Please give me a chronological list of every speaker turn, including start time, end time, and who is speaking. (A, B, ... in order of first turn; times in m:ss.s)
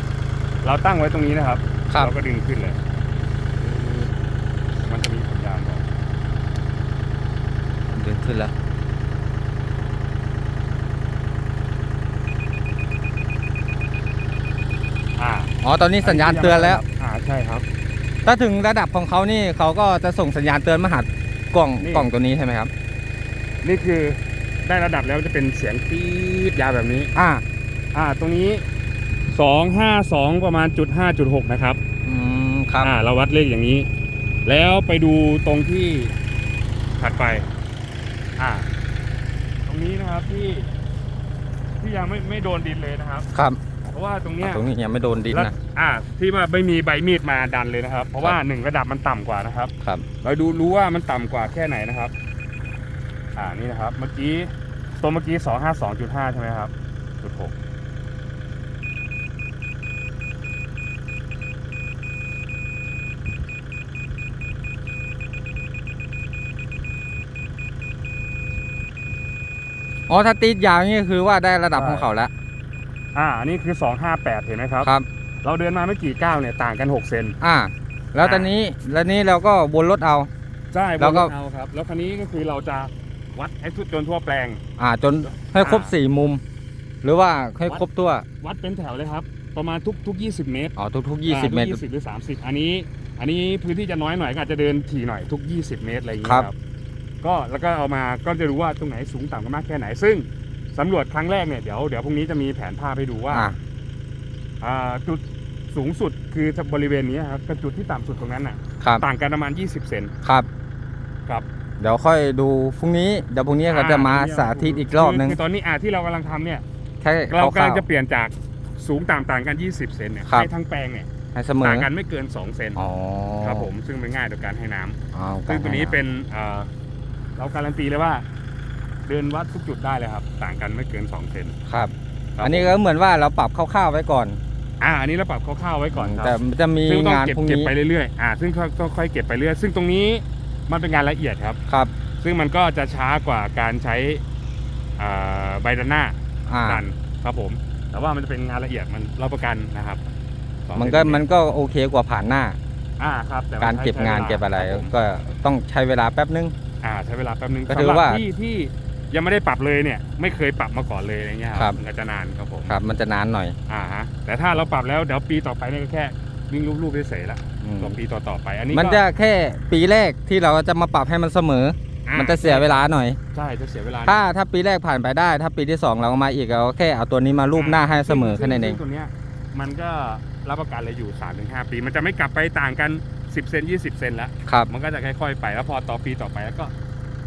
0:00.6-0:02.8 A
0:03.6-0:04.1 A
0:04.9-0:05.9 A
0:07.9-0:08.5 B
0:15.2-0:17.6 A
0:15.6-0:16.8 B
0:18.2-0:22.7 B
0:21.8-0:22.1 A
0:23.6-0:27.1 A
0:27.2-0:27.4 B
0:27.9-0:28.6 A
0:29.3-0:31.8 A
0:32.0-0:32.9 B
0:32.8-0:33.9 A
0:34.5-0:36.1 A
0:37.0-0:37.5 A
0:38.4-0:38.7 A
0:39.7-0:40.7 A
0:41.8-0:43.3 A
0:43.3-0:43.6 B
0:43.9-0:44.6 A
0:44.4-0:45.5 B
0:45.3-0:52.1 A
0:53.4-0:57.5 A
1:10.1-1:12.3 B
1:11.8-1:12.1 A
1:13.1-1:14.9 A
1:15.4-1:17.4 A
1:17.4-1:20.3 B
1:18.2-1:18.5 A
1:20.7-1:24.6 A
1:21.0-1:21.3 B
1:24.8-1:26.4 B
1:25.6-1:25.9 A
1:27.0-1:28.2 B
1:28.4-1:30.7 A
1:30.8-1:31.8 B
1:31.3-1:36.6 A
1:36.2-1:36.5 B
1:37.2-1:43.5 A
1:43.3-1:43.6 B
1:44.6-1:50.1 A
1:51.8-1:55.4 B
1:53.7-1:56.6 A
1:57.0-1:57.9 B
1:57.3-2:01.1 A
2:01.3-2:01.9 B
2:01.6-2:02.8 A
2:02.8-2:03.7 B
2:03.4-2:05.0 A
2:05.1-2:06.0 B
2:05.5-2:06.7 A
2:07.4-2:08.2 A
2:09.1-2:11.6 A
2:11.7-2:14.4 B
2:12.4-2:12.8 A
2:14.8-2:21.6 A
2:15.9-2:17.7 B
2:22.2-2:24.2 A
2:25.0-2:30.0 A
2:26.5-2:26.8 B
2:30.7-2:31.2 A
2:30.8-2:32.6 B
2:33.0-2:34.9 A
2:33.6-2:36.5 B
2:36.8-2:42.8 A
2:37.7-2:38.2 B
2:42.7-2:43.6 B
2:43.7-2:49.0 A
2:47.6-2:48.0 B
2:48.7-2:53.2 B
2:52.1-2:54.2 A
2:54.0-2:58.8 B
2:57.6-3:06.7 A